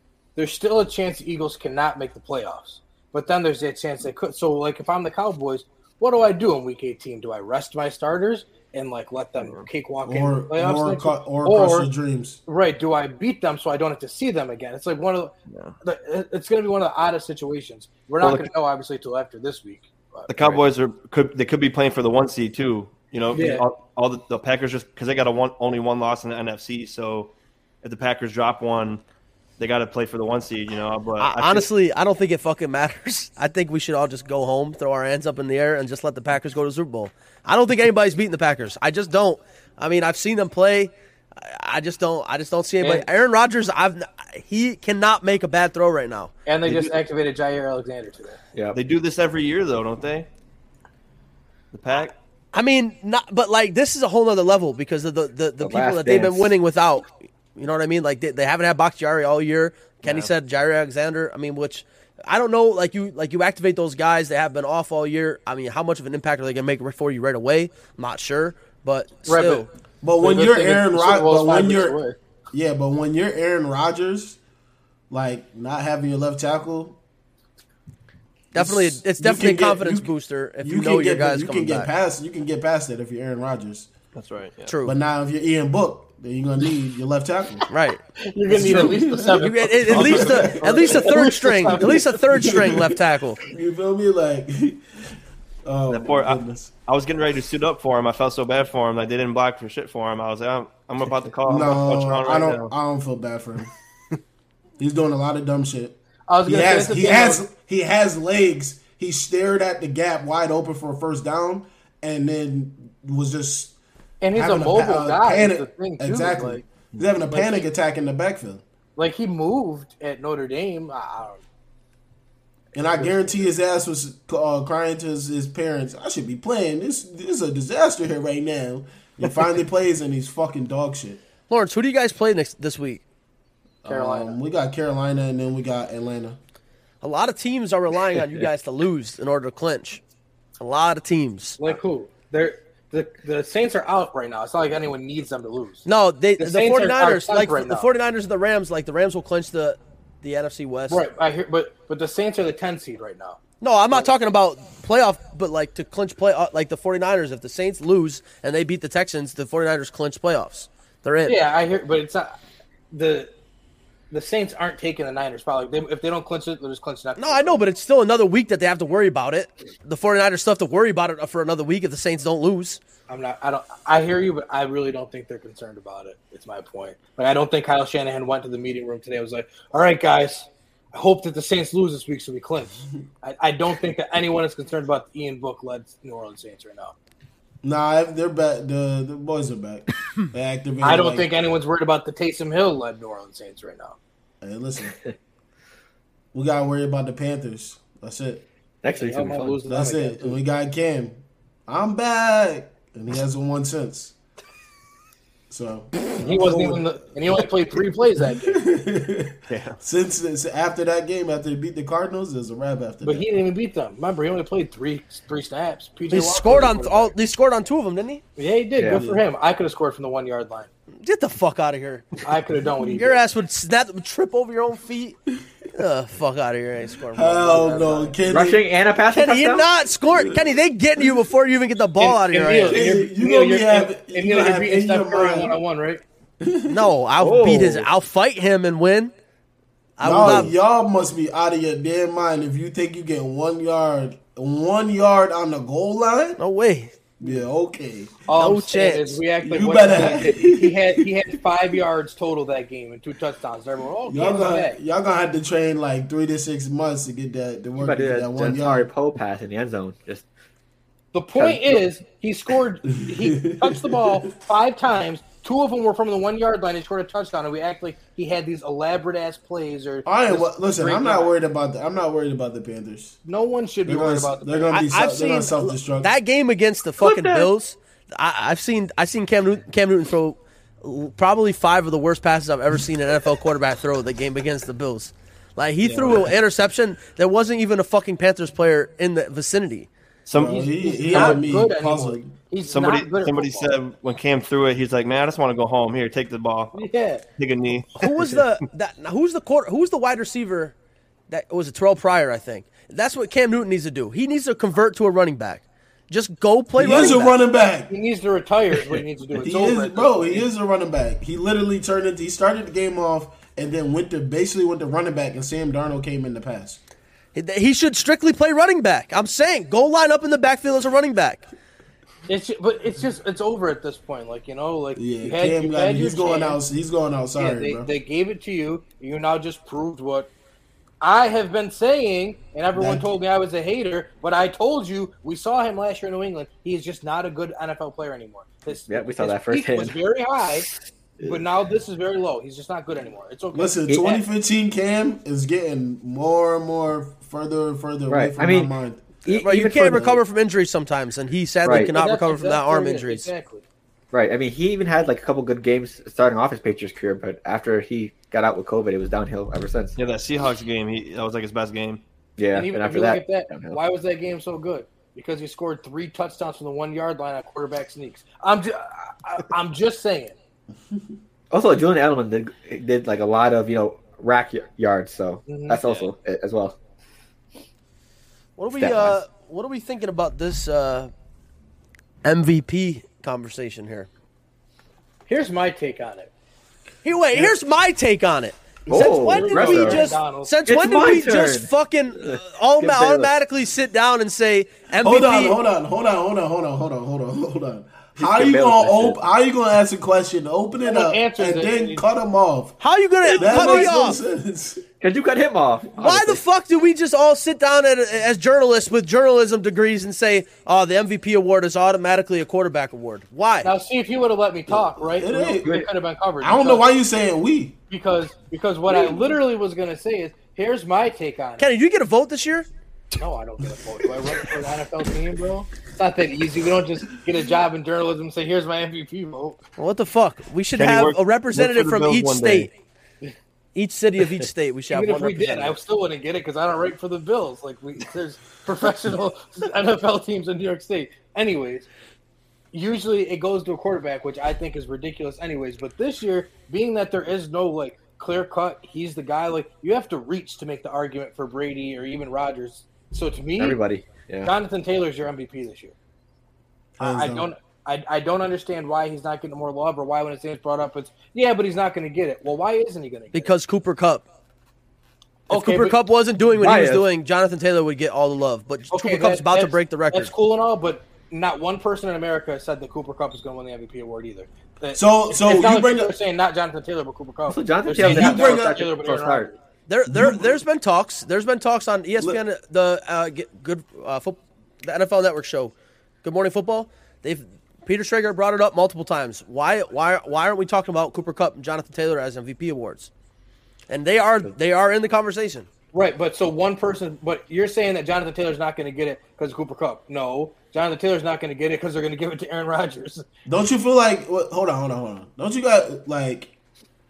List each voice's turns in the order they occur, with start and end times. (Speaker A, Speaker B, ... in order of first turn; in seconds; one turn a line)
Speaker A: 0.4-11.9
Speaker B: 9.4-9.7
Speaker C: 10.1-12.4
Speaker A: 12.5-20.7
Speaker B: 15.5-15.8
Speaker B: 18.2-18.5
Speaker B: 20.3-29.0
Speaker A: 23.3-23.6
Speaker B: 29.6-31.7
Speaker D: 31.2-46.3
Speaker A: 46.5-48.4
Speaker E: 46.7-46.9
Speaker B: 48.7-50.3
Speaker B: 51.7-52.1
Speaker D: 52.5-69.7
Speaker E: 55.6-56.5
Speaker B: 60.0-60.3
Speaker A: 69.3-69.7
Speaker C: 70.0-72.0
Speaker A: 70.2-72.2
Speaker C: 72.5-74.4
Speaker C: 75.1-77.0
Speaker D: 78.5-81.9
Speaker C: 78.5-80.1
Speaker C: 80.6-83.9
Speaker B: 84.2-84.7
Speaker D: 84.7-85.0
Speaker C: 84.8-87.6
Speaker D: 87.7-88.0
Speaker A: 88.2-92.6
Speaker C: 88.5-94.8
Speaker D: 89.4-93.4
Speaker B: 89.9-90.5
Speaker C: 95.7-96.7
Speaker B: 95.9-102.7
Speaker C: 101.5-103.7
Speaker C: 104.8-113.7
Speaker A: 106.3-107.4
Speaker A: 114.2-116.6
Speaker C: 114.3-118.6
Speaker A: 117.3-117.7
Speaker A: 119.0-121.4
Speaker C: 122.8-131.2
Speaker A: 123.0-123.4
Speaker D: 131.5-133.0
Speaker C: 133.8-136.4
Speaker A: 133.9-134.4
Speaker D: 137.0-140.0
Speaker D: 140.6-141.6
Speaker A: 141.6-145.9
Speaker D: 145.9-151.0
Speaker A: 146.4-147.9
Speaker A: 150.9-153.4
Speaker D: 153.6-161.4
Speaker A: 161.2-162.3
Speaker A: 162.9-163.3
Speaker A: 164.1-167.6
Speaker D: 167.2-172.8
Speaker A: 173.1-186.9
Speaker C: 187.6-191.3
Speaker A: 190.8-194.0
Speaker C: 194.4-195.0
Speaker C: 196.3-198.4
Speaker E: 198.8-199.6
Speaker A: 199.0-200.4
Speaker C: 199.7-204.1
Speaker C: 205.5-207.4
Speaker A: 206.2-208.7
Speaker C: 208.3-213.2
Speaker B: 209.5-209.8
Speaker A: 213.0-217.2
Speaker D: 216.1-218.2
Speaker A: 218.4-220.7
Speaker E: 218.8-219.0
Speaker C: 218.9-219.2
Speaker D: 221.0-222.2
Speaker A: 222.2-223.2
Speaker D: 222.9-225.2
Speaker D: 225.7-228.0
Speaker C: 227.1-228.6
Speaker A: 227.5-228.2
Speaker E: 228.2-229.7
Speaker D: 229.1-232.8
Speaker A: 232.0-236.0
Speaker C: 232.7-235.6
Speaker C: 236.4-236.8
Speaker D: 236.7-239.1
Speaker E: 237.2-237.9
Speaker D: 240.0-240.5
Speaker C: 240.0-246.4
Speaker D: 246.4-246.9
Speaker C: 247.2-248.2
Speaker A: 248.3-254.8
Speaker D: 248.3-249.2
Speaker C: 249.4-251.1
Speaker C: 254.1-258.9
Speaker E: 257.8-260.3
Speaker A: 261.1-271.3
Speaker E: 261.4-261.8
Speaker C: 263.1-264.2
Speaker C: 270.1-273.2
Speaker A: 273.2-274.9
Speaker C: 273.9-276.1
Speaker D: 274.7-289.9
Speaker E: 277.0-277.5
Speaker B: 285.8-286.2
Speaker B: 290.3-291.4
Speaker C: 290.4-292.3
Speaker A: 290.5-293.7
Speaker B: 292.7-296.8
Speaker A: 296.7-297.2
Speaker B: 297.4-298.4
Speaker D: 298.0-300.7
Speaker D: 301.3-307.4
Speaker C: 306.8-307.9
Speaker A: 307.9-310.5
Speaker C: 309.4-316.8
Speaker D: 317.4-321.5
Speaker A: 322.3-326.6
Speaker C: 325.0-327.9
Speaker A: 327.4-330.3
Speaker A: 331.0-340.7
Speaker C: 332.7-333.1
Speaker E: 338.9-340.0
Speaker A: 341.2-344.2
Speaker C: 343.5-349.2
Speaker E: 348.1-348.7
Speaker E: 349.2-350.2
Speaker D: 349.3-353.3
Speaker E: 351.6-351.9
Speaker A: 351.7-353.6
Speaker E: 354.1-360.0
Speaker B: 360.0-362.0
Speaker E: 362.4-363.8
Speaker A: 362.5-370.4
Speaker E: 371.5-376.8
Speaker A: 375.5-375.8
Speaker B: 375.8-376.1
Speaker D: 378.6-381.1
Speaker E: 378.8-379.2
Speaker D: 382.2-384.1
Speaker A: 385.3-386.3
Speaker D: 387.0-395.6
Speaker E: 388.9-390.1
Speaker A: 388.9-390.6
Speaker E: 390.7-391.7
Speaker E: 392.2-393.3
Speaker C: 395.0-402.8
Speaker E: 398.2-399.2
Speaker A: 400.8-402.0
Speaker D: 402.8-404.2
Speaker C: 403.4-404.8
Speaker E: 403.4-403.9
Speaker E: 405.0-406.4
Speaker D: 406.0-413.7
Speaker A: 413.6-416.9
Speaker C: 415.1-415.8
Speaker E: 415.6-415.9
Speaker C: 416.4-417.8
Speaker A: 417.9-421.7
Speaker D: 421.6-422.7
Speaker A: 423.2-429.6
Speaker D: 429.8-432.7
Speaker B: 430.8-432.7
Speaker D: 433.8-435.8
Speaker A: 434.9-441.9
Speaker A: 442.7-453.8
Speaker E: 453.6-454.5
Speaker A: 454.4-455.9
Speaker C: 457.0-457.5
Speaker A: 457.0-463.5
Speaker D: 463.3-464.3
Speaker A: 465.5-466.0
Speaker D: 465.5-470.3
Speaker E: 466.6-467.1
Speaker A: 468.9-479.6
Speaker C: 474.9-476.1
Speaker E: 477.5-479.5
Speaker C: 478.0-478.8
Speaker D: 479.9-493.1
Speaker C: 480.1-480.6
Speaker D: 493.9-495.7
Speaker A: 495.9-503.2
Speaker C: 503.5-506.5